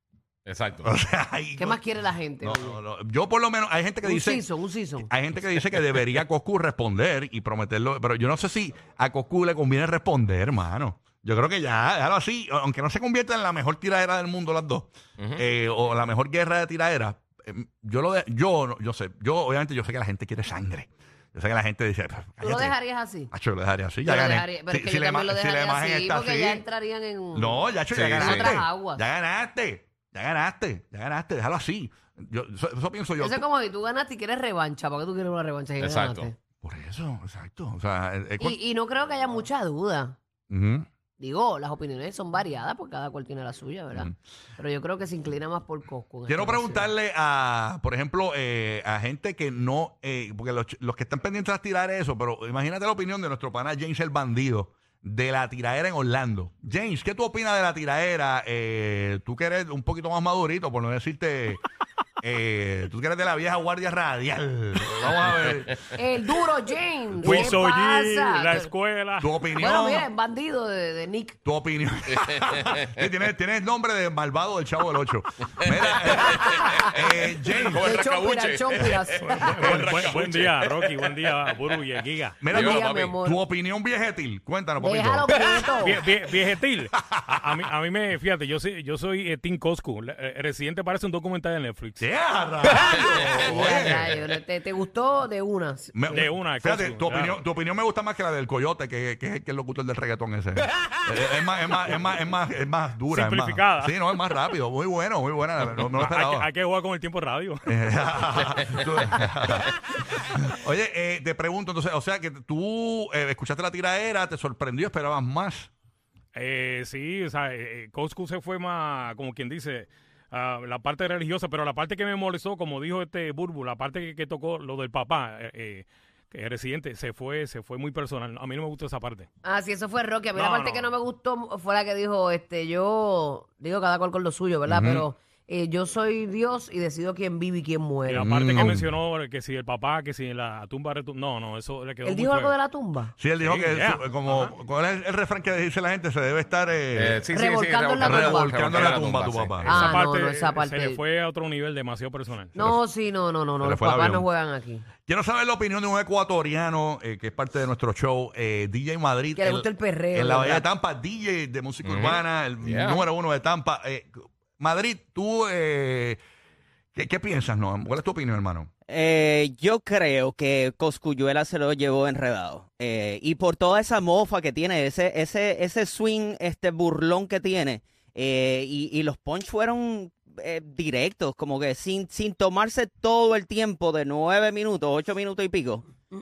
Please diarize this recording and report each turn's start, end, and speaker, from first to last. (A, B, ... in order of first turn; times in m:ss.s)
0:00.5-0:00.9 A
0:00.8-0:01.8 B
0:01.6-0:02.8 C
0:02.4-0:04.5 B
0:04.0-0:05.1 C
0:05.0-0:22.8 B
0:15.2-0:15.4 A
0:22.4-0:23.3 C
0:23.3-0:26.6 B
0:24.0-0:29.0 C
0:27.3-0:33.4 B
0:27.9-0:28.5 A
0:33.2-0:36.3 C
0:35.8-0:36.3 A
0:36.6-0:38.6 B
0:38.4-0:40.2 C
0:40.5-0:40.9 B
0:41.2-0:46.9 C
0:46.3-1:01.6 B
1:02.2-1:05.9 B
1:05.9-1:08.7 C
1:07.1-1:07.6 B
1:07.2-1:09.3 D
1:09.2-1:10.1 B
1:09.6-1:11.4 C
1:11.4-1:17.9 B
1:15.7-1:21.2 A
1:16.2-1:16.9 C
1:17.6-1:19.8 C
1:19.2-1:22.4 D
1:19.6-1:20.2 B
1:22.4-1:25.3 B
1:22.5-1:23.2 A
1:22.5-1:23.4 C
1:24.8-1:26.0 C
1:25.8-1:32.1 D
1:27.0-1:27.4 B
1:32.0-1:34.1 B
1:33.1-1:36.2 C
1:35.9-1:46.5 B
1:36.1-1:37.4 D
1:43.1-1:43.9 D
1:46.0-1:47.6 D
1:47.6-1:55.7 B
1:56.3-2:09.3 D
2:09.4-2:18.3 C
2:10.3-2:10.9 D
2:14.7-2:15.1 B
2:18.1-2:22.6 D
2:18.2-2:18.9 B
2:22.0-2:23.1 C
2:23.2-2:27.2 B
2:23.4-2:24.5 D
2:26.9-2:29.8 A
2:27.3-2:28.6 C
2:28.0-2:29.9 B
2:29.6-2:31.0 C
2:29.7-2:32.7 D
2:32.6-2:34.8 C
2:33.6-2:34.3 B
2:35.1-2:46.2 B
2:39.4-2:40.7 C
2:41.8-2:43.1 A
2:46.9-2:48.7 B
2:48.9-3:05.8 E